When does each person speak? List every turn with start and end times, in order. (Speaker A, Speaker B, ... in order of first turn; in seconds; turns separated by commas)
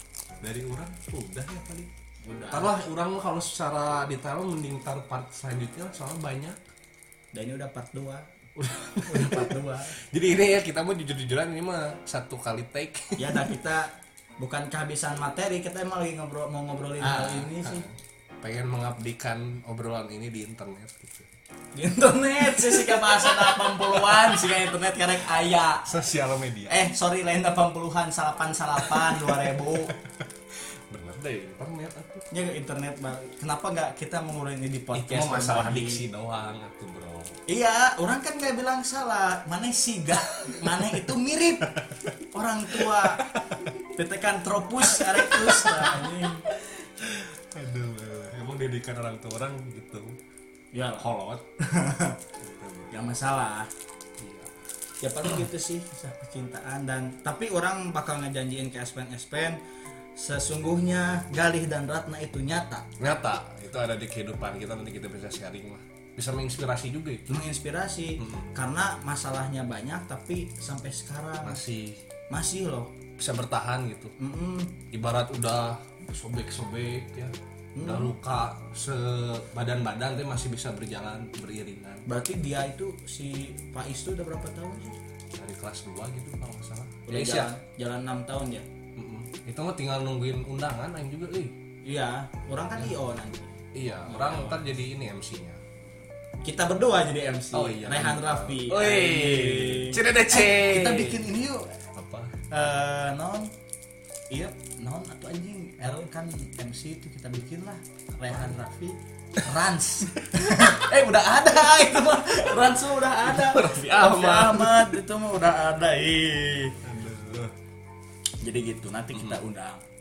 Speaker A: 0.4-1.9, Speaker B: 2.2-2.8, Speaker A: 2.5-6.6, Speaker B: 7.3-8.3, Speaker A: 8.6-13.5, Speaker B: 9.0-10.0, Speaker B: 13.2-17.9, Speaker A: 17.0-21.3, Speaker B: 21.7-25.9, Speaker A: 22.7-23.1, Speaker A: 25.8-26.8, Speaker B: 26.7-29.9, Speaker A: 28.8-32.2, Speaker B: 32.3-36.0, Speaker A: 34.9-37.4, Speaker B: 37.5-43.3, Speaker A: 40.4-40.7, Speaker A: 41.7-42.1, Speaker A: 42.7-43.8, Speaker B: 43.8-46.5, Speaker A: 44.8-50.1, Speaker B: 50.7-51.1, Speaker A: 51.0-51.4, Speaker B: 51.6-52.2, Speaker A: 52.4-53.1, Speaker B: 52.9-53.7, Speaker A: 54.2-54.5, Speaker B: 55.0-59.6, Speaker B: 60.1-62.9, Speaker A: 63.0-67.4, Speaker B: 67.3-71.6, Speaker A: 68.2-68.5, Speaker A: 71.4-72.0, Speaker B: 72.3-72.9, Speaker A: 73.2-74.1, Speaker B: 74.2-74.8, Speaker A: 74.9-82.0, Speaker B: 77.7-78.2, Speaker B: 82.0-85.0, Speaker A: 85.3-87.5, Speaker B: 87.0-88.7, Speaker A: 89.0-91.6, Speaker B: 91.8-94.6, Speaker A: 93.7-95.6, Speaker B: 96.4-101.8, Speaker A: 97.5-101.2, Speaker A: 101.9-102.3, Speaker B: 102.5-103.5, Speaker B: 104.3-116.8, Speaker A: 108.3-108.5, Speaker A: 113.2-114.9, Speaker A: 116.8-117.5, Speaker B: 118.4-119.8, Speaker A: 119.1-119.4